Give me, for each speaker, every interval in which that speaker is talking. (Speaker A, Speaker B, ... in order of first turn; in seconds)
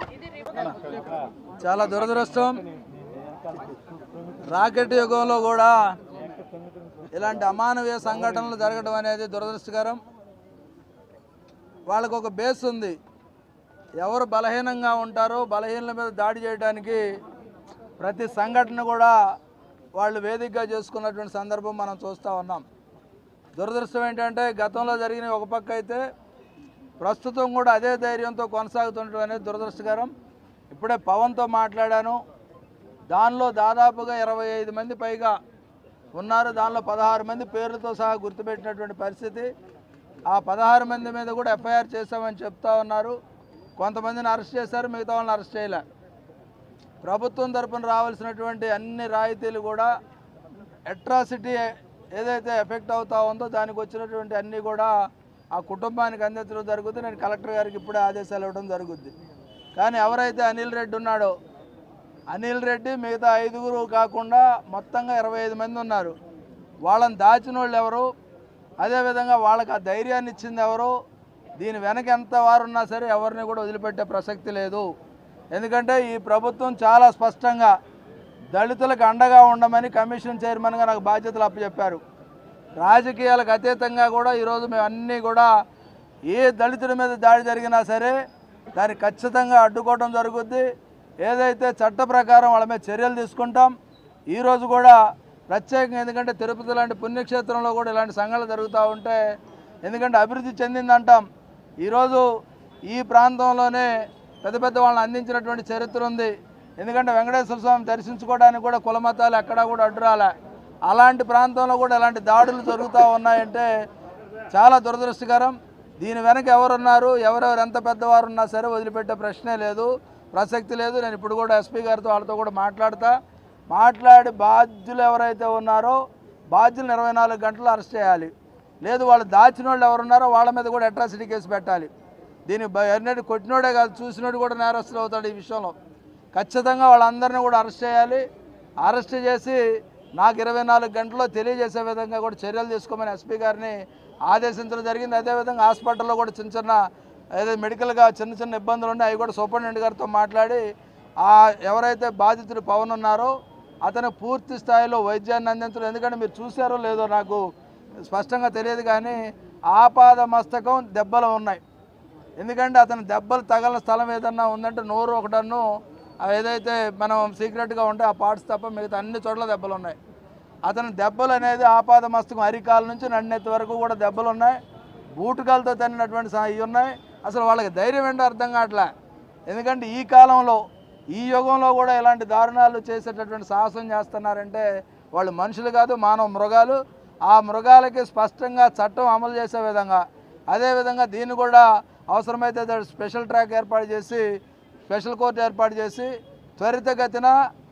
Speaker A: 1.6-2.6, 4.5-5.9, 7.1-10.0, 11.9-13.0, 14.0-17.1, 18.0-19.1, 20.0-22.6, 23.6-26.0, 27.0-30.1, 30.7-32.2, 33.1-35.4, 36.1-39.5, 40.3-43.2, 43.8-45.8, 47.0-49.9, 50.9-54.9, 55.5-59.1, 59.8-61.3, 62.3-66.1, 66.8-68.1, 68.8-70.9, 71.6-74.9, 75.5-77.7, 78.5-82.0, 82.8-85.5, 86.3-88.1, 88.8-90.7, 91.2-93.7, 94.3-99.2, 99.8-101.2, 101.8-102.3, 102.9-103.9, 104.4-110.3, 110.9-113.7, 114.5-123.2, 123.7-126.0, 126.5-128.3, 128.8-131.9, 132.5-135.7, 136.3-138.2, 138.8-146.8, 147.3-150.6, 151.2-157.4, 158.0-161.6, 162.4-165.7, 166.2-170.0, 170.7-174.6, 175.2-178.9, 179.5-194.3, 194.9-197.4